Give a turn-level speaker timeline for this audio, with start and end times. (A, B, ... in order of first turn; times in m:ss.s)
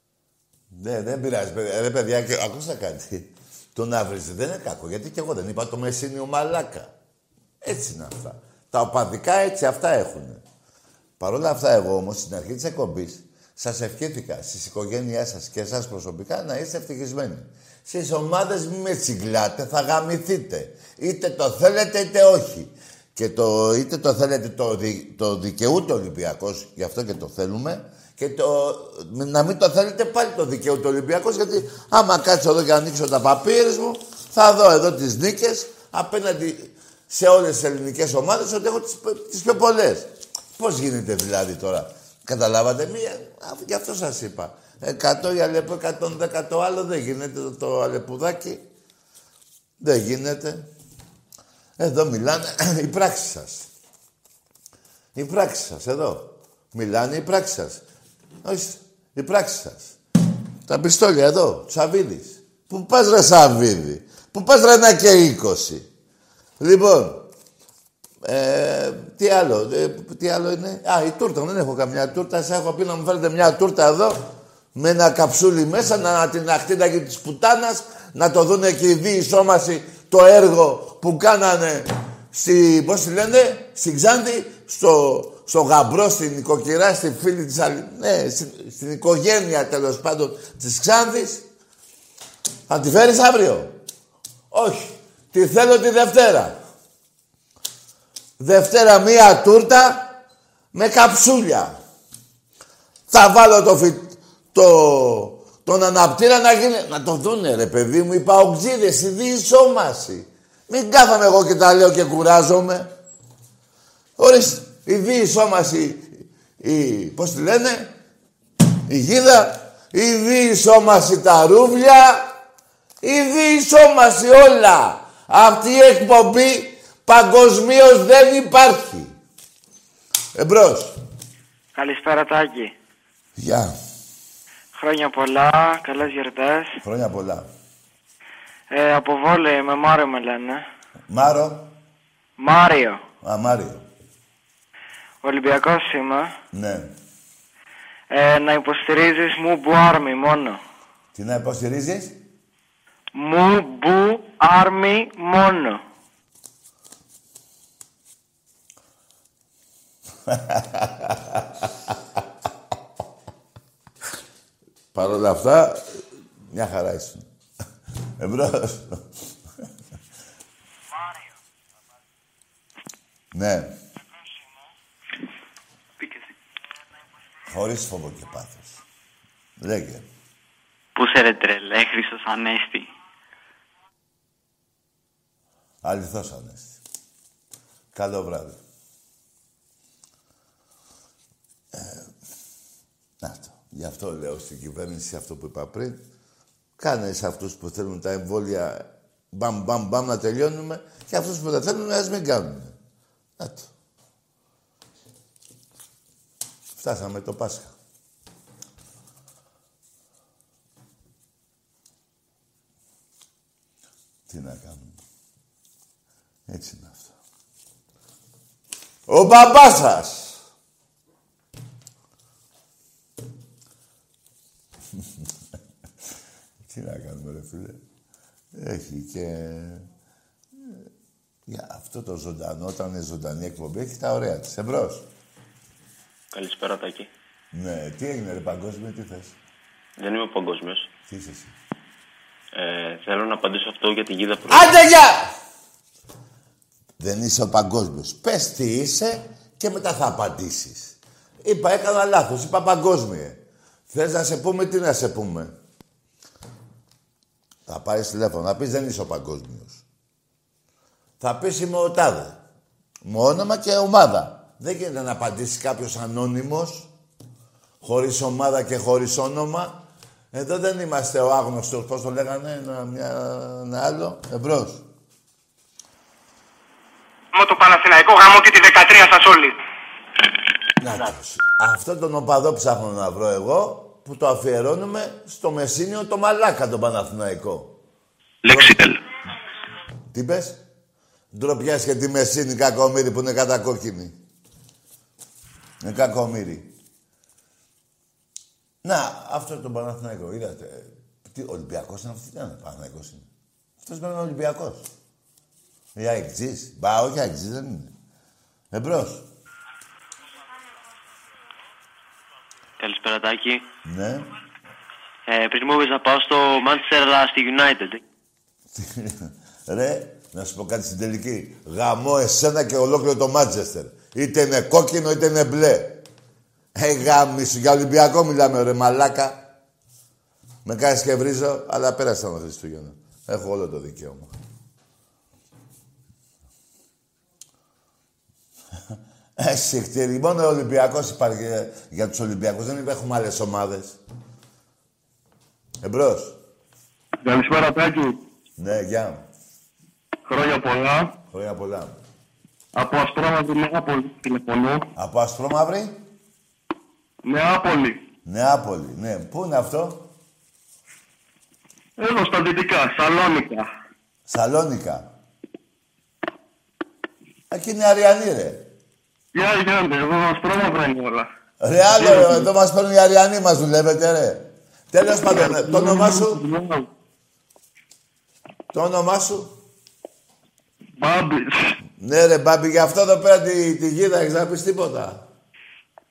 0:00.7-0:06.9 A
0:07.6-0:10.4 A
0:11.2-0:48.6 A
0:49.8-0:50.6 A
0:51.8-0:53.7 A
0:55.1-0:57.8 A
0:58.4-1:00.0 A
1:00.7-1:05.9 A
1:06.6-1:07.3 A
1:08.2-1:14.2 A
1:14.7-1:31.4 A
1:32.7-1:33.8 A
1:34.5-1:36.6 A
1:38.4-1:40.2 A
1:40.7-1:41.7 A
1:43.1-1:52.9 A
1:54.2-1:57.9 A
1:58.9-2:02.3 A
2:03.0-2:09.1 A
2:10.4-2:11.0 A
2:11.8-2:12.7 B
2:13.4-2:13.7 A
2:14.7-2:16.8 B
2:16.8-2:17.5 A
2:18.7-2:20.6 B
2:21.1-2:21.7 A
2:22.4-2:23.0 B
2:23.2-2:23.8 A
2:25.2-2:26.3 B
2:26.5-2:26.9 A
2:28.1-2:30.6 B
2:31.1-2:32.2 A
2:33.1-2:35.8 B
2:40.3-2:41.6 A
2:44.9-2:47.2 A
2:48.2-2:49.0 A
2:53.3-2:53.7 A
2:57.5-2:58.8 A
2:59.6-3:00.0 A
3:01.0-3:02.9 C
3:05.8-3:06.8 A
3:07.9-3:08.6 A
3:11.7-3:12.0 A
3:13.2-3:16.0 A
3:16.8-3:22.7 A
3:23.4-3:23.7 A
3:26.8-3:27.7 A
3:34.3-3:34.9 A
3:36.5-3:37.1 A
3:39.1-3:40.4 A
3:46.7-3:47.8 A
3:48.5-3:49.8 A
3:51.5-3:55.0 A
3:56.3-3:57.1 D
3:57.5-3:59.4 A
4:00.0-4:00.9 D
4:01.1-4:01.5 A
4:02.5-4:04.7 D
4:04.5-4:05.3 A
4:07.0-4:13.4 A
4:13.9-4:15.5 A
4:17.7-4:19.8 A
4:21.2-4:22.4 A
4:23.0-4:26.9 A
4:27.8-4:34.8 A
4:37.4-4:39.4 E
4:40.8-4:47.7 A
4:48.5-4:48.8 A
4:50.1-4:50.6 A
4:51.3-4:54.1 A
4:55.8-4:56.7 A
4:58.8-5:03.2 A
5:03.8-5:04.9 A
5:06.0-5:07.9 A
5:08.7-5:09.2 A
5:12.8-5:13.6 C
5:13.8-5:14.3 A
5:15.3-5:18.0 C
5:18.7-5:26.0 A
5:26.8-5:29.5 A
5:30.6-5:34.3 A
5:39.4-5:44.0 A
5:45.8-5:46.4 A
5:47.2-5:48.2 F
5:48.6-5:49.2 A
5:50.3-5:51.1 F
5:51.3-5:52.0 A
5:52.7-5:54.9 F
5:54.9-5:56.0 A
5:57.2-5:58.0 F
5:58.2-6:00.1 A
6:02.0-6:03.7 F
6:04.3-6:05.1 A
6:07.5-6:08.6 A
6:09.3-6:11.3 F
6:11.6-6:16.4 A
6:11.9-6:12.5 F
6:15.2-6:16.8 F
6:18.7-6:19.5 A
6:21.0-6:21.7 F
6:22.0-6:25.2 A